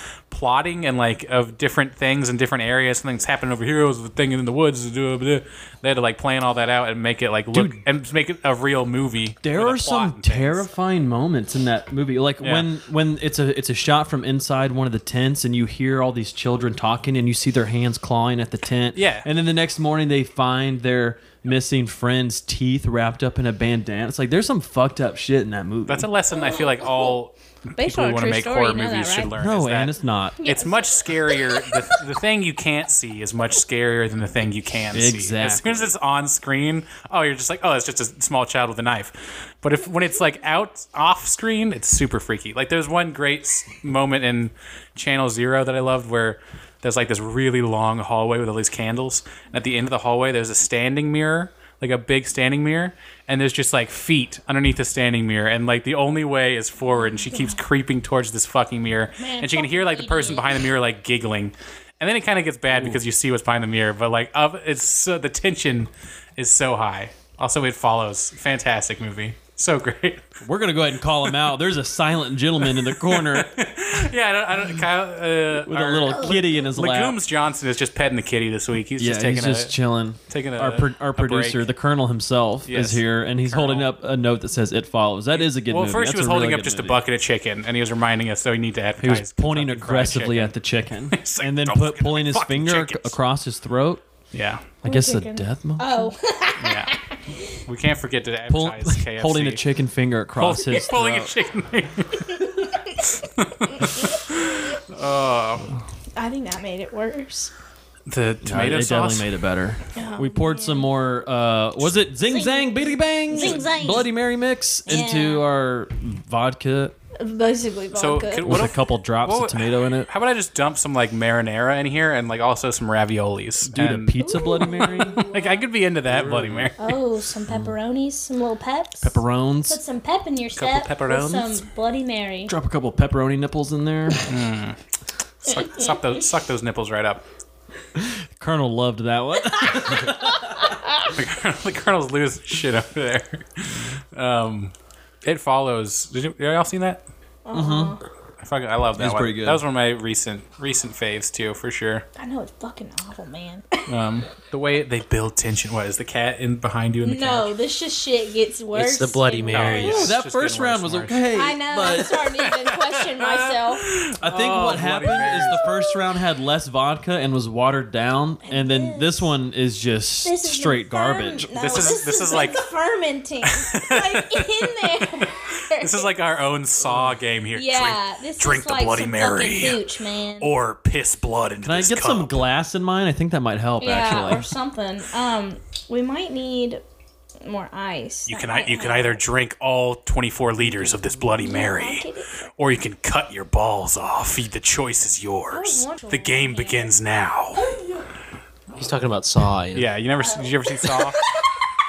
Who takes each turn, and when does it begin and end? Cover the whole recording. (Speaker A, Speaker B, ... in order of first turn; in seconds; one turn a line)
Speaker A: 0.3-10.7
Speaker B: 7.5-7.8
Speaker B: 9.4-26.1
Speaker A: 12.4-12.7
Speaker A: 18.9-19.3
Speaker A: 25.9-70.3
Speaker C: 26.3-27.1
Speaker C: 27.8-29.3
Speaker B: 29.4-30.4
Speaker C: 30.4-32.0
Speaker B: 34.9-35.9
Speaker C: 57.0-57.6
Speaker C: 59.2-60.7
Speaker B: 62.7-63.0
Speaker B: 70.4-74.0
Speaker A: 72.7-79.7
Speaker B: 75.7-77.2
Speaker B: 79.0-87.0
Speaker A: 80.3-81.7
Speaker A: 82.7-83.9
Speaker A: 85.3-90.5
Speaker B: 89.0-94.0
Speaker A: 91.1-93.2
Speaker A: 94.3-94.7
Speaker B: 94.8-96.1
Speaker C: 94.8-97.6
Speaker A: 96.6-97.0
Speaker A: 97.5-99.6
Speaker B: 98.5-101.3
Speaker A: 100.4-105.7
Speaker C: 102.4-103.1
Speaker C: 103.7-104.4
Speaker C: 106.2-107.5
Speaker A: 108.1-109.3
Speaker B: 108.4-117.0
Speaker C: 110.0-110.9
Speaker C: 112.2-114.1
Speaker C: 114.9-115.5
Speaker C: 117.2-118.7
Speaker A: 117.9-127.0
Speaker B: 118.4-120.1
Speaker B: 123.7-125.4
Speaker C: 124.2-125.5
Speaker B: 126.1-126.7
Speaker C: 126.8-132.5
Speaker B: 127.5-127.7
Speaker B: 129.0-129.8
Speaker A: 130.6-131.6
Speaker B: 132.5-134.3
Speaker A: 134.3-134.8
Speaker A: 135.4-137.2
Speaker C: 135.5-136.1
Speaker B: 137.9-140.5
Speaker C: 139.6-141.2
Speaker A: 141.1-147.0
Speaker C: 147.4-148.0
Speaker B: 147.5-148.0
Speaker A: 148.4-152.1
Speaker B: 149.0-149.6
Speaker C: 152.2-153.9
Speaker A: 153.9-157.5
Speaker C: 157.0-160.1
Speaker D: 158.7-160.1
Speaker A: 159.5-161.2
Speaker B: 159.9-162.2
Speaker C: 161.3-163.9
Speaker A: 161.9-165.8
Speaker B: 164.2-171.5
Speaker C: 165.3-165.9
Speaker C: 168.4-169.3
Speaker C: 170.2-176.1
Speaker A: 171.6-172.7
Speaker A: 173.5-179.8
Speaker B: 176.9-177.1
Speaker C: 177.6-180.5
Speaker A: 180.4-182.4
Speaker B: 181.7-184.5
Speaker C: 183.8-186.8
Speaker C: 187.4-189.2
Speaker A: 188.3-192.1
Speaker C: 191.3-192.4
Speaker A: 192.6-197.6
Speaker C: 195.5-196.9
Speaker D: 198.8-199.9
Speaker A: 199.7-201.2
Speaker C: 200.2-200.5